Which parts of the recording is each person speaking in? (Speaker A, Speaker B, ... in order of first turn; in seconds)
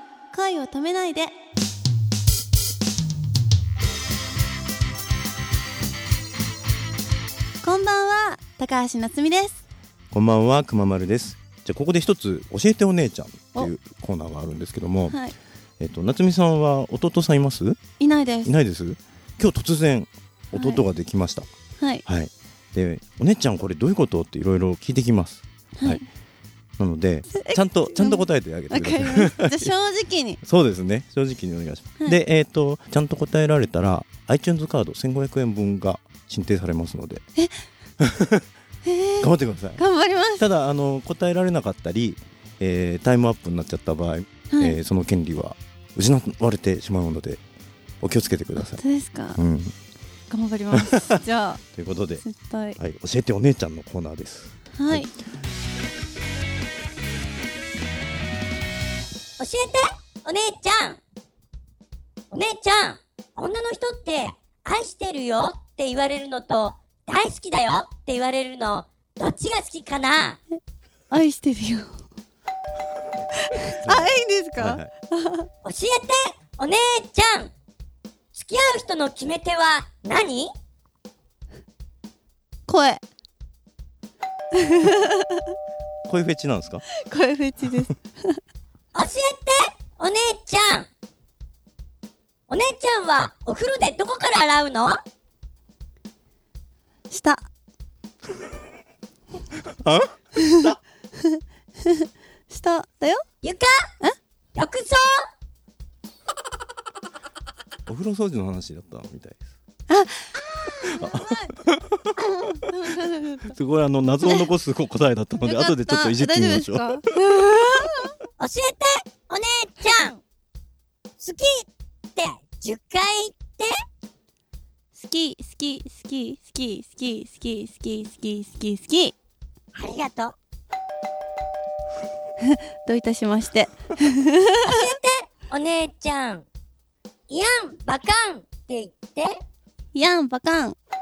Speaker A: 0.3-1.3, 7.6-9.6, 15.1-15.3, 18.0-18.5, 20.5-20.8, 25.8-26.1, 27.3-30.4, 37.4-37.6, 38.8-40.4, 44.5-44.8, 48.6-49.4, 50.3-51.6, 52.2-52.8, 54.8-55.1, 71.1-71.9, 73.5-75.5, 82.7-83.0, 84.6-85.4, 87.0-88.4, 97.1-97.5, 100.4-100.6, 101.3-103.2, 109.9-110.3, 110.8-111.5, 112.2-113.5, 114.2-114.5, 115.4-118.1, 124.9-129.1, 132.4-134.7, 139.9-140.8
Speaker B: 10.1-15.2, 15.8-17.8, 18.4-21.5, 22.1-26.0, 26.8-29.7, 30.4-37.2, 38.0-38.4, 39.2-39.8, 40.4-47.4, 48.0-48.8, 49.4-49.7, 50.7-51.2, 51.7-52.2, 52.8-55.1, 73.8-74.9, 86.1-86.8, 99.8-100.7, 107.9-109.4, 110.8-112.1, 113.5-117.0
Speaker C: 59.4-61.0, 62.3-70.4, 75.6-77.5, 78.3-80.5, 88.9-90.9, 92.5-95.0, 103.4-103.7, 104.5-105.2, 118.4-120.2, 121.2-123.7, 129.7-130.3, 134.6-136.4, 137.3-139.4